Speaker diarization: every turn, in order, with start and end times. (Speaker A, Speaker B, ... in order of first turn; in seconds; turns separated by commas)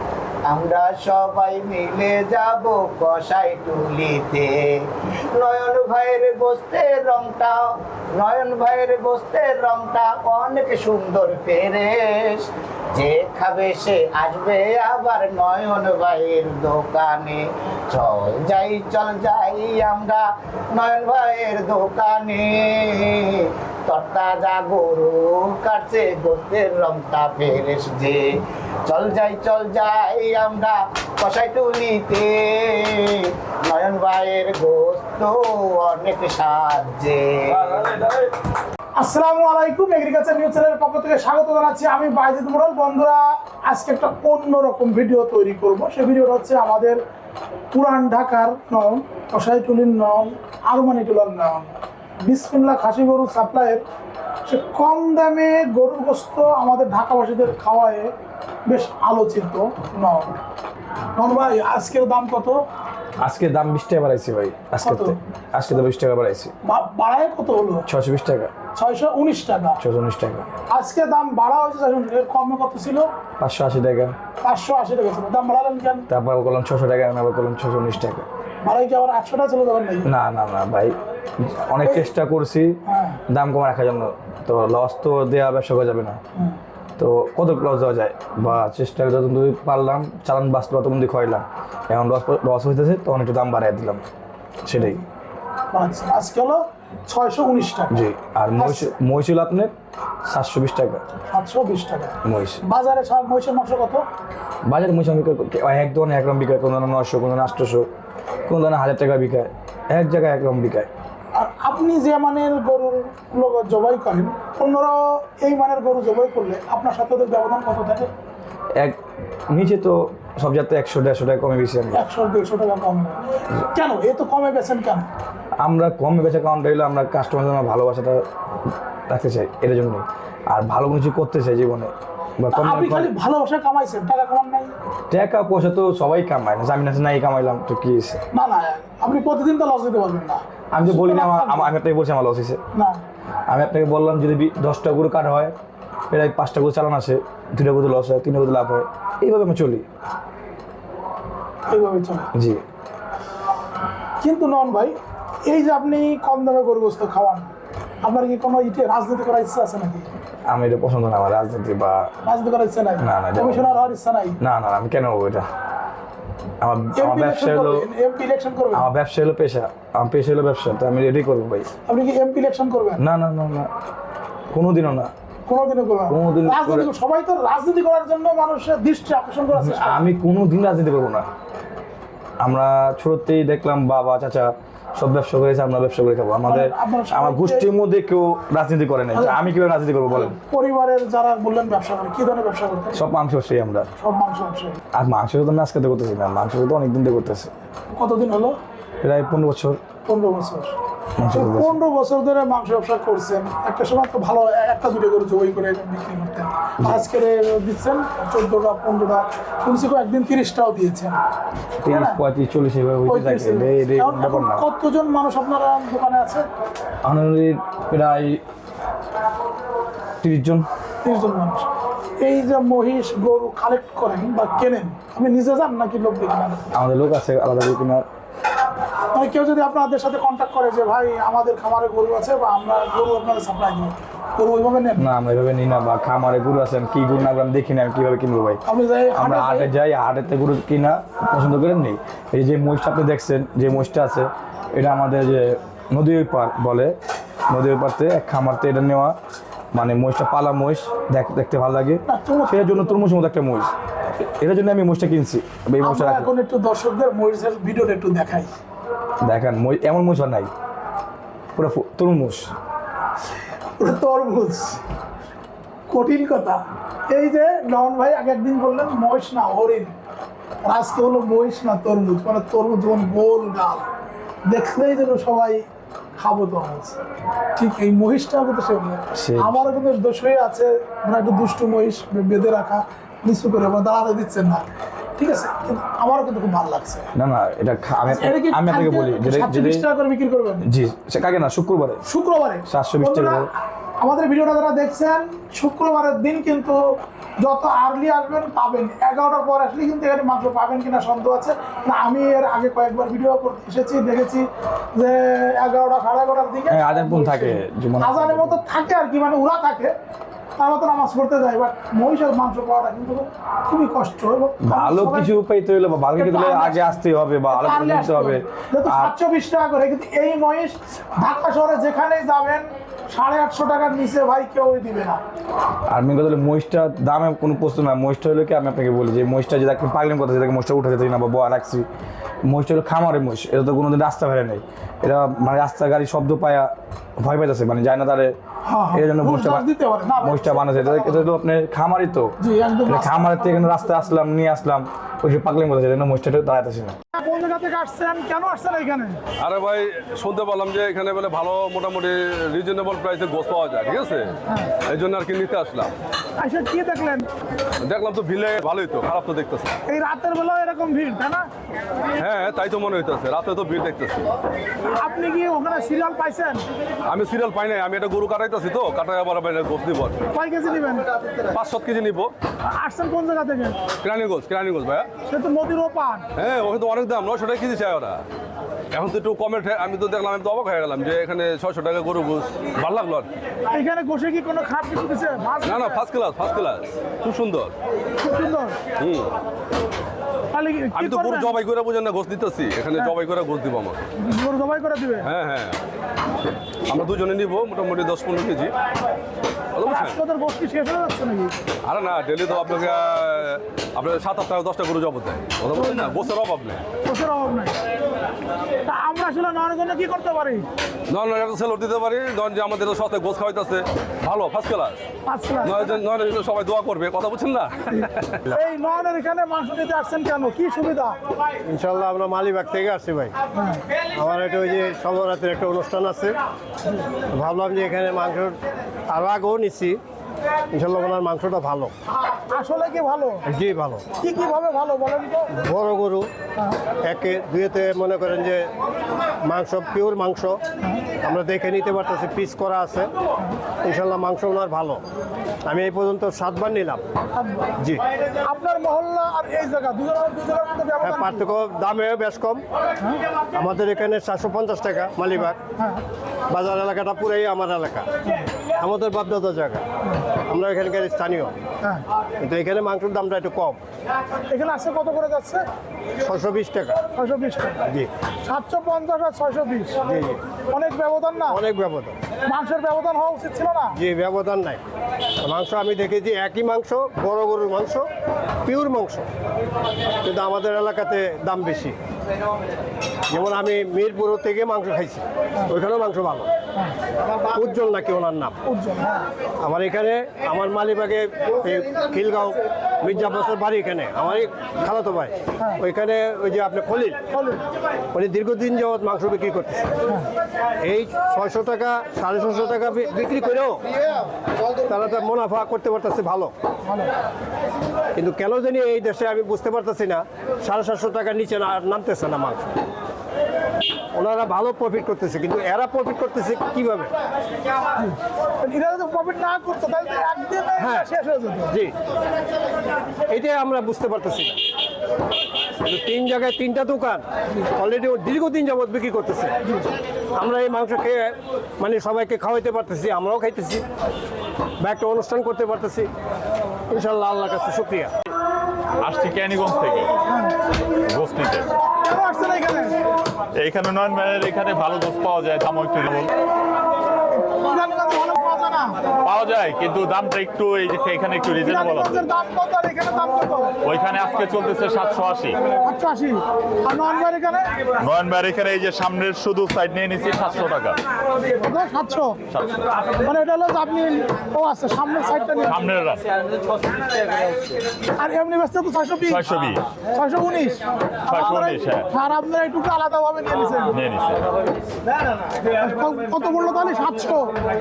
Speaker A: 0.5-28.2, Speaker A: 28.9-37.9, Speaker B: 37.5-38.3, Speaker C: 39.0-47.0, Speaker C: 47.7-53.8, Speaker C: 54.5-58.1, Speaker C: 58.7-60.4, Speaker C: 61.2-62.6, Speaker B: 63.2-66.5, Speaker C: 64.8-65.2, Speaker C: 66.7-67.9, Speaker B: 67.9-68.5, Speaker C: 68.8-69.8, Speaker B: 69.8-70.5, Speaker C: 70.7-73.1, Speaker B: 73.4-74.1, Speaker C: 74.4-76.1, Speaker B: 76.1-78.2, Speaker C: 78.6-80.1, Speaker B: 80.0-86.2, Speaker C: 82.9-83.2, Speaker B: 87.0-94.0, Speaker B: 94.7-95.0, Speaker C: 95.7-98.0, Speaker B: 97.9-99.7, Speaker C: 98.6-98.9, Speaker B: 100.3-101.0, Speaker C: 101.3-104.0, Speaker B: 102.2-102.6, Speaker B: 104.7-107.9, Speaker B: 108.5-110.9, Speaker C: 111.3-118.1, Speaker B: 119.5-122.0, Speaker C: 121.9-125.1, Speaker B: 125.6-128.2, Speaker B: 129.1-133.1, Speaker C: 132.5-134.7, Speaker B: 135.1-138.2, Speaker C: 138.3-141.7, Speaker B: 140.7-142.6, Speaker C: 142.7-143.0, Speaker B: 143.5-145.5, Speaker B: 146.1-149.9, Speaker C: 151.7-152.3, Speaker B: 152.3-152.6, Speaker C: 154.2-154.9, Speaker C: 155.5-157.5, Speaker C: 158.0-160.1, Speaker B: 160.5-162.0, Speaker C: 162.2-164.4, Speaker B: 163.0-163.9, Speaker B: 164.4-165.4, Speaker B: 166.6-167.9, Speaker C: 166.9-168.9, Speaker B: 168.7-171.7, Speaker C: 171.9-173.0, Speaker B: 173.0-173.7, Speaker B: 174.5-175.1, Speaker C: 175.5-180.1, Speaker B: 176.1-176.9, Speaker B: 179.5-181.3, Speaker B: 182.4-190.3, Speaker C: 186.5-187.7, Speaker C: 189.1-189.4, Speaker C: 190.1-193.0, Speaker B: 192.9-193.9, Speaker C: 194.0-194.8, Speaker B: 194.9-197.5, Speaker C: 197.9-198.6, Speaker B: 199.0-199.8, Speaker C: 200.1-200.8, Speaker B: 201.2-201.8, Speaker C: 201.3-211.2, Speaker B: 206.8-207.1, Speaker B: 211.8-214.7, Speaker C: 211.9-212.2, Speaker C: 213.1-216.5, Speaker B: 217.0-218.4, Speaker B: 220.2-220.7, Speaker C: 221.0-226.6, Speaker B: 226.7-228.0, Speaker C: 229.1-235.1, Speaker B: 235.0-238.6, Speaker C: 238.7-239.7, Speaker B: 239.2-246.9, Speaker B: 247.5-249.2, Speaker B: 249.7-253.7, Speaker C: 252.1-252.9, Speaker B: 254.4-256.3, Speaker C: 255.8-258.5, Speaker B: 259.2-260.5, Speaker B: 261.6-262.5, Speaker C: 263.8-264.8, Speaker C: 265.9-269.9, Speaker C: 270.6-273.9, Speaker C: 274.5-275.6, Speaker C: 276.2-277.0, Speaker C: 277.6-284.6, Speaker B: 279.1-279.8, Speaker C: 285.2-287.1, Speaker B: 287.1-289.9, Speaker C: 288.1-290.6, Speaker B: 290.7-292.0, Speaker C: 292.1-296.8, Speaker B: 292.7-293.5, Speaker C: 297.4-309.9, Speaker B: 306.7-308.6, Speaker C: 310.6-315.3, Speaker B: 314.6-319.1, Speaker C: 316.2-317.0, Speaker C: 317.5-325.2, Speaker B: 325.9-331.9, Speaker B: 332.4-338.4, Speaker C: 338.6-341.3, Speaker B: 338.9-339.7, Speaker B: 340.2-342.3, Speaker C: 342.4-344.1, Speaker B: 342.9-346.9, Speaker C: 347.1-349.2, Speaker D: 349.4-354.4, Speaker D: 354.9-355.9, Speaker C: 356.4-357.3, Speaker D: 357.8-359.7, Speaker C: 359.9-361.5, Speaker D: 362.2-364.3, Speaker C: 364.9-366.6, Speaker D: 367.1-370.2, Speaker C: 370.3-371.1, Speaker D: 371.4-372.3, Speaker C: 372.7-373.8, Speaker D: 374.0-375.1, Speaker C: 375.2-376.3, Speaker D: 376.4-378.2, Speaker D: 378.9-383.3, Speaker C: 383.7-386.0, Speaker D: 385.6-387.7, Speaker C: 388.2-388.8, Speaker D: 389.0-389.3, Speaker C: 390.5-391.6, Speaker D: 390.9-394.0, Speaker C: 394.2-395.3, Speaker D: 395.2-395.8, Speaker D: 396.9-398.7, Speaker D: 399.8-400.2, Speaker C: 399.8-401.6, Speaker D: 401.9-406.8, Speaker C: 405.8-406.3, Speaker C: 407.1-407.8, Speaker C: 408.9-410.7, Speaker D: 411.1-415.0, Speaker C: 415.2-415.9, Speaker D: 415.6-418.5, Speaker C: 418.5-421.2, Speaker E: 421.7-423.3, Speaker C: 423.5-423.8, Speaker E: 424.1-426.4, Speaker E: 427.3-428.6, Speaker E: 429.1-430.0, Speaker E: 430.7-431.9, Speaker C: 432.5-433.4, Speaker E: 433.5-434.1, Speaker C: 434.2-435.5, Speaker E: 435.6-436.3, Speaker E: 437.0-438.7, Speaker E: 439.4-440.6, Speaker C: 440.8-441.1, Speaker E: 441.2-443.1, Speaker E: 443.8-445.0, Speaker E: 445.6-447.0, Speaker C: 447.4-447.7, Speaker C: 448.4-451.6, Speaker E: 451.0-452.6, Speaker E: 453.6-455.6, Speaker C: 455.8-456.0, Speaker E: 456.5-458.1, Speaker E: 458.8-459.9, Speaker E: 460.4-461.5, Speaker E: 462.4-463.8, Speaker C: 464.5-465.6, Speaker E: 466.2-467.0, Speaker C: 467.1-467.9, Speaker C: 468.4-470.0, Speaker E: 470.1-470.4, Speaker C: 470.7-471.6, Speaker E: 471.5-472.2, Speaker C: 472.5-474.0, Speaker E: 473.9-474.8, Speaker E: 475.4-478.1, Speaker E: 478.7-479.3, Speaker E: 480.2-482.0, Speaker E: 483.3-486.5, Speaker E: 487.3-488.6, Speaker C: 488.6-489.3, Speaker E: 489.6-497.2, Speaker C: 497.3-497.6, Speaker E: 498.1-499.9, Speaker E: 500.8-503.9, Speaker E: 504.9-506.5, Speaker C: 506.9-507.1, Speaker E: 508.2-512.7, Speaker E: 514.1-517.1, Speaker C: 518.0-521.7, Speaker E: 520.8-521.1, Speaker E: 523.3-524.6, Speaker E: 525.8-529.5, Speaker E: 530.4-533.9, Speaker E: 534.8-536.1, Speaker E: 536.9-538.1, Speaker F: 539.0-540.1, Speaker C: 540.3-540.5, Speaker F: 541.1-541.7, Speaker C: 541.9-543.0, Speaker F: 543.6-546.3, Speaker C: 547.4-549.0, Speaker F: 549.2-552.3, Speaker C: 551.5-553.7, Speaker F: 553.8-555.6, Speaker C: 555.8-557.7, Speaker F: 558.0-561.0, Speaker C: 561.6-562.4, Speaker F: 562.5-562.9, Speaker C: 563.2-565.8, Speaker F: 565.7-566.2, Speaker C: 568.1-569.4, Speaker F: 569.3-569.9, Speaker C: 570.1-574.0, Speaker F: 571.3-572.1, Speaker F: 573.9-574.5, Speaker C: 575.8-577.5